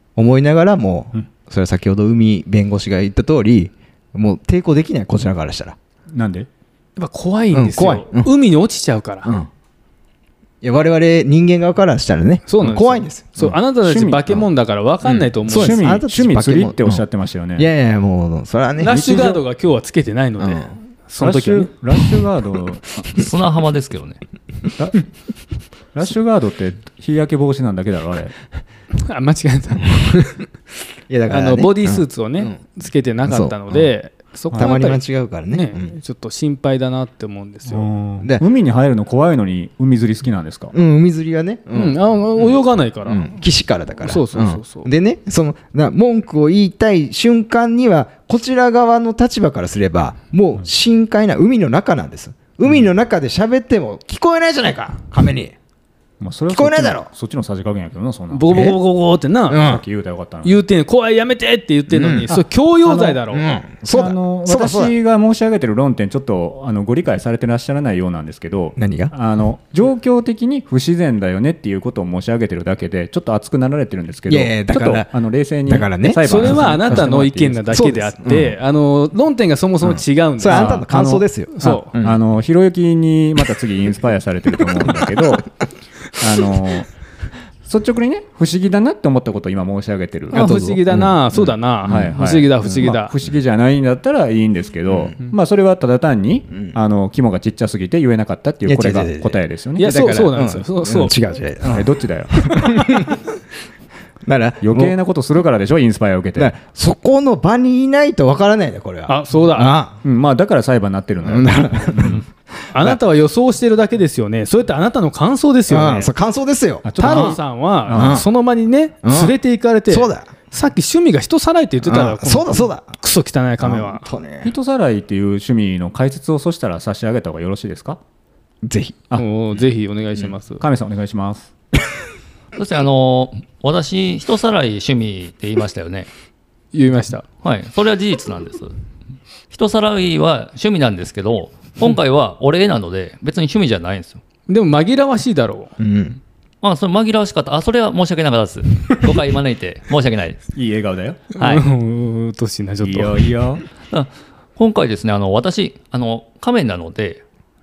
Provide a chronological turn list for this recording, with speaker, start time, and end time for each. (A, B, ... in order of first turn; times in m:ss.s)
0:00.2-0:05.8 A
0:06.1-0:06.5 B
0:07.0-0:09.3 C
0:07.5-0:08.3 A
0:10.6-0:13.4 A
0:12.5-0:15.9 C
0:13.4-0:14.4 B
0:15.1-0:17.0 A
0:15.5-0:17.7 B
0:17.6-0:19.2 A
0:18.8-0:21.7 C
0:18.9-0:19.4 B
0:20.4-0:20.7 A
0:21.2-0:23.1 B
0:23.1-0:24.2 D
0:24.8-0:25.1 B
0:25.9-0:28.3 B
0:28.9-0:30.2 C
0:30.0-0:30.4 A
0:31.1-0:32.6 A
0:31.3-0:37.9 C
0:33.3-0:33.9 A
0:34.5-0:35.9 A
0:34.5-0:34.8 B
0:37.7-0:40.7 B
0:40.7-0:42.0 A
0:41.7-0:43.4 C
0:43.1-0:55.6 A
0:44.0-0:44.9 C
0:56.2-0:58.6 B
0:56.5-0:57.1 A
0:58.3-0:59.6 C
0:58.5-0:58.8 A
0:59.5-0:59.8 A
0:59.6-1:00.6 B
1:00.4-1:03.5 C
1:01.9-1:02.3 A
1:02.3-1:03.2 B
1:03.3-1:04.9 A
1:03.9-1:17.8 B
1:08.8-1:09.1 A
1:14.3-1:15.1 A
1:15.7-1:17.1 A
1:16.2-1:20.9 C
1:17.7-1:18.6 A
1:19.8-1:22.2 A
1:20.5-1:21.3 B
1:21.5-1:21.9 C
1:21.9-1:25.6 B
1:26.1-1:26.9 B
1:27.6-1:30.4 B
1:30.3-1:32.1 A
1:30.3-1:33.1 C
1:31.8-1:40.1 B
1:38.6-1:43.2 A
1:39.8-1:41.2 C
1:41.6-1:43.1 B
1:44.2-1:44.9 A
1:44.6-1:46.5 B
1:46.4-1:50.0 A
1:49.1-1:49.7 C
1:50.0-1:52.2 B
1:51.2-1:52.2 A
1:52.7-1:56.1 C
1:55.7-1:58.3 A
1:56.8-1:58.2 B
1:57.0-2:04.1 C
1:59.0-1:59.4 A
1:59.9-2:00.3 A
2:01.8-2:02.9 A
2:03.6-2:04.6 A
2:04.4-2:08.0 B
2:08.6-2:09.1 A
2:09.2-2:10.6 C
2:10.6-2:11.5 B
2:12.6-2:16.1 D
2:16.7-2:17.2 C
2:17.4-2:18.7 D
2:19.5-2:24.2 D
2:24.5-2:25.7 C
2:25.8-2:26.2 A
2:26.6-2:30.4 D
2:30.5-2:31.2 B
2:31.4-2:33.3 C
2:31.4-2:31.6 D
2:32.8-2:33.6 B
2:33.9-2:37.2 D